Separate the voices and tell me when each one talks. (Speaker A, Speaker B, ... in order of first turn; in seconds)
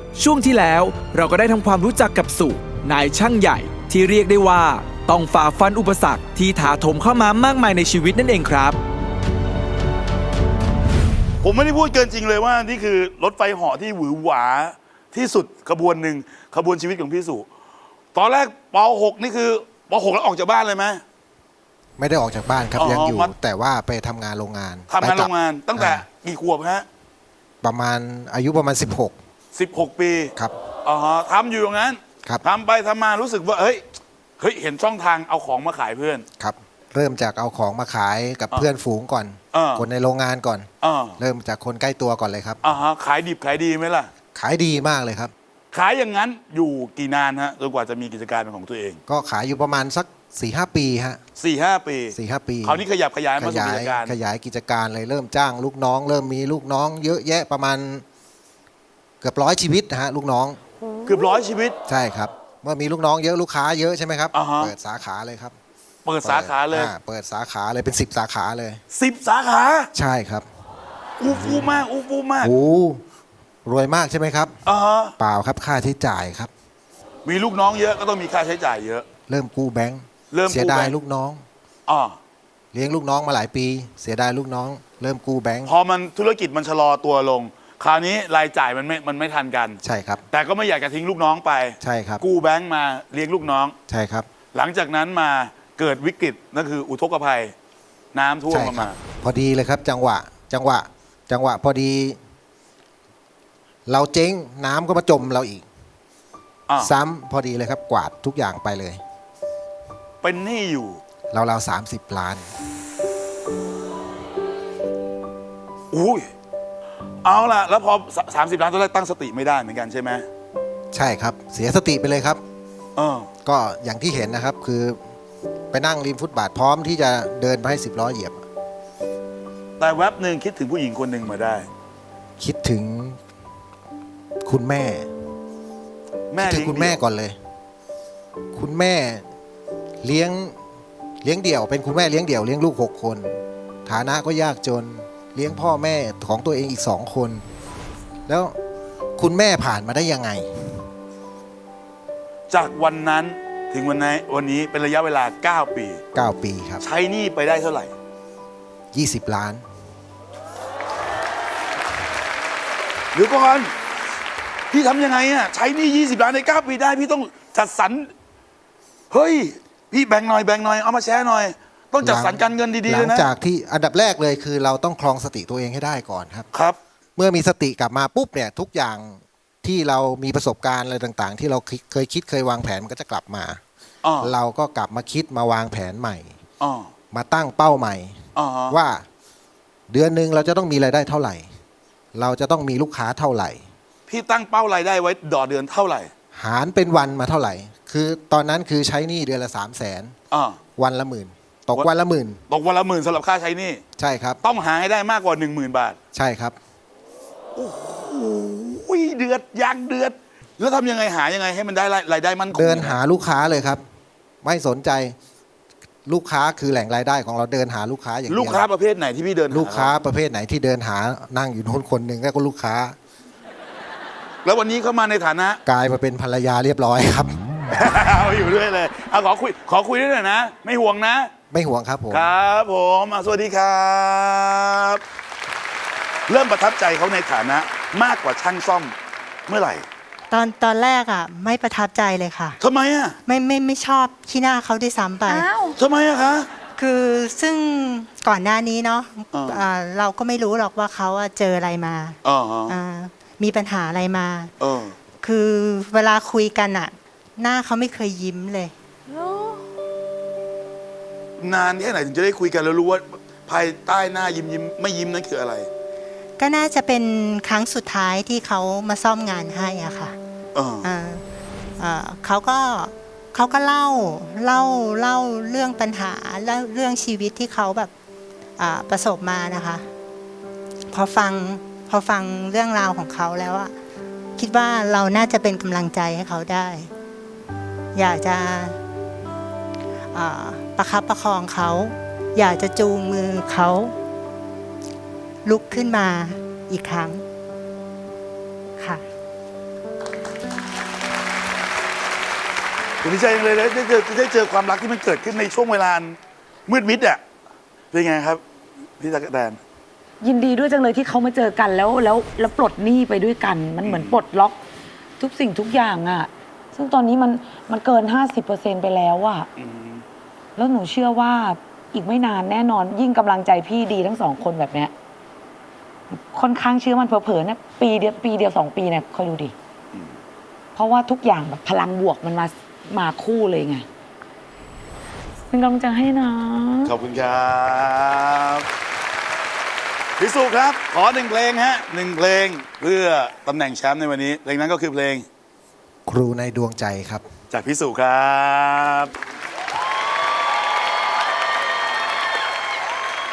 Speaker A: 0.2-8.8
Speaker B: 11.4-17.5, 18.1-21.0, 22.8-23.3, 24.9-26.9, 29.6-30.3, 30.9-33.8, 34.4-36.2, 39.5-39.9, 40.8-41.2, 42.6-44.1, 45.7-49.0, 51.4-54.2, 61.1-61.8, 64.3-64.7, 66.0-66.9, 68.9-69.9, 71.2-72.5, 74.7-75.1, 77.3-79.0, 80.3-80.9, 81.9-82.2, 85.7-89.8, 90.3-93.8, 94.5-97.5, 98.1-99.0, 110.2-111.0, 115.9-116.3, 117.2-120.3, 123.0-123.3, 129.8-131.7, 136.3-137.0, 152.5-156.0, 156.8-157.9, 163.2-163.7, 164.7-168.1, 169.1-173.3, 184.0-184.3, 186.6-186.9, 188.4-188.8, 194.1-196.1, 200.3-200.6, 202.5-203.8, 204.4-206.0, 207.6-213.0, 218.3-219.9, 224.4-225.6, 227.7-231.3, 232.1-235.0, 236.3-238.9, 239.5-239.8, 242.6-243.2, 245.8-246.5, 249.3-249.6, 252.2-252.8, 254.6-254.9, 261.4-265.7, 270.6-270.9, 303.0-307.2, 307.9-308.4, 309.0-309.6, 313.8-314.2, 319.6-320.0, 336.9-338.7, 340.2-345.2, 347.5-349.1
Speaker C: 22.0-26.1, 27.6-29.1, 36.4-42.6, 44.3-45.3, 49.1-51.2, 52.1-52.8, 53.4-58.0, 59.2-60.6, 61.9-65.5, 66.2-68.8, 70.0-70.5, 72.4-73.0, 73.7-74.5, 75.2-76.5, 79.3-81.4, 82.7-85.7, 89.8-90.2, 91.8-92.2, 93.9-94.3, 98.5-102.2, 103.9-105.7, 106.8-109.0, 111.3-112.5, 120.9-122.4, 123.5-125.0, 125.7-128.4, 132.4-133.2, 134.4-135.1, 136.4-137.4, 138.5-139.2, 140.0-140.6, 141.2-147.4, 148.3-148.6, 149.2-150.7, 156.2-156.8, 158.9-159.6, 172.0-176.5, 177.2-183.6, 184.2-186.3, 187.1-188.2, 188.7-189.0, 189.9-191.5, 192.1-193.6, 196.3-200.2, 200.8-202.4, 204.0-204.4, 206.1-206.6, 212.5-213.8, 214.4-215.2, 216.1-218.7, 219.5-223.0, 225.7-227.4, 231.5-232.3, 346.1-347.2
Speaker D: 240.3-242.6, 243.3-245.5, 246.8-254.5, 255.2-258.7, 266.4-270.1, 270.8-271.2, 271.8-277.9, 278.6-279.9, 280.9-283.7, 284.4-286.9, 287.9-288.8, 290.1-293.9, 295.4-297.2
Speaker E: 245.3-245.8, 310.2-314.6, 315.2-319.5, 320.6-324.9, 326.1-329.5, 330.8-333.9, 335.5-336.9